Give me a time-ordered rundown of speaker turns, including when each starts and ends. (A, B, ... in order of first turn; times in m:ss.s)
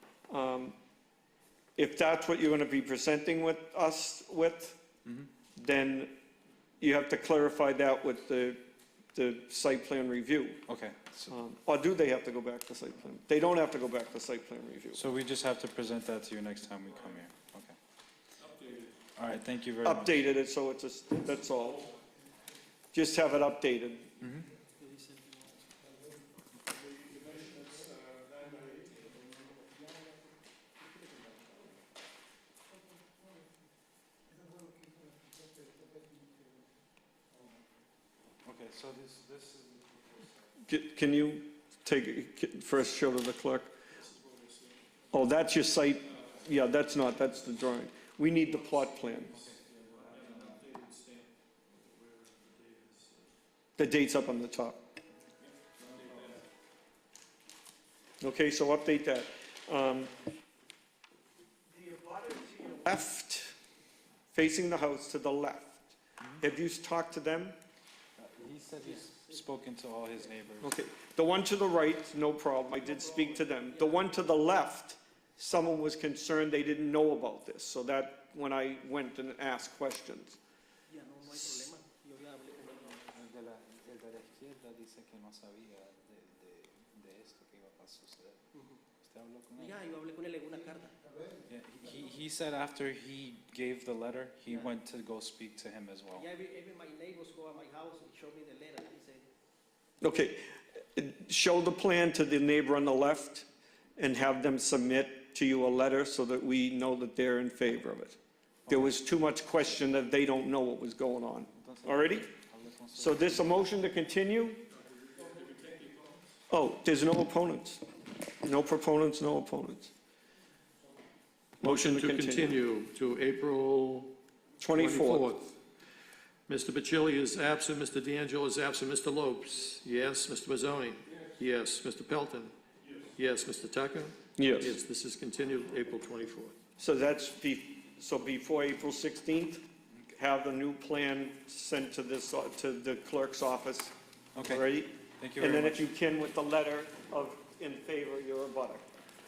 0:00.3-0:00.8 A
0:01.8-0:04.8 A
0:05.6-0:06.1 A
0:06.8-0:08.6 A
0:09.1-0:10.6 A
0:10.7-0:11.4 B
0:11.3-0:15.0 A
0:14.9-0:17.8 B
0:19.2-0:20.2 B
0:19.8-0:21.9 A
0:22.9-0:24.1 A
0:24.8-0:25.8 C
0:38.4-0:40.5 B
0:40.7-0:43.7 A
0:45.1-0:49.4 A
0:49.3-0:50.5 B
0:50.2-0:51.2 D
0:52.1-0:53.2 D
0:53.8-0:54.8 A
0:58.2-1:00.1 A
1:01.7-1:03.5 A
1:04.3-1:07.6 A
1:08.2-1:10.7 B
1:10.6-1:20.4 A
1:13.2-1:14.1 C
1:20.9-1:23.0 C
1:23.1-1:28.4 B
1:29.0-1:29.8 B
1:29.6-1:31.2 C
1:31.5-1:36.3 B
1:36.2-1:39.3 C
1:40.0-1:40.4 A
1:41.0-1:43.4 A
1:44.0-1:52.3 A
1:51.6-1:53.6 B
1:52.9-1:54.6 A
1:56.5-1:57.8 A
1:58.4-1:59.9 A
2:01.6-2:02.6 A
2:01.6-2:04.1 D
2:04.6-2:05.3 A
2:04.7-2:05.5 D
2:06.5-2:12.5 D
2:13.2-2:16.5 D
2:14.4-2:14.8 A
2:16.8-2:19.6 A
2:20.2-2:28.8 A
2:24.3-2:24.6 B
2:25.2-2:25.8 B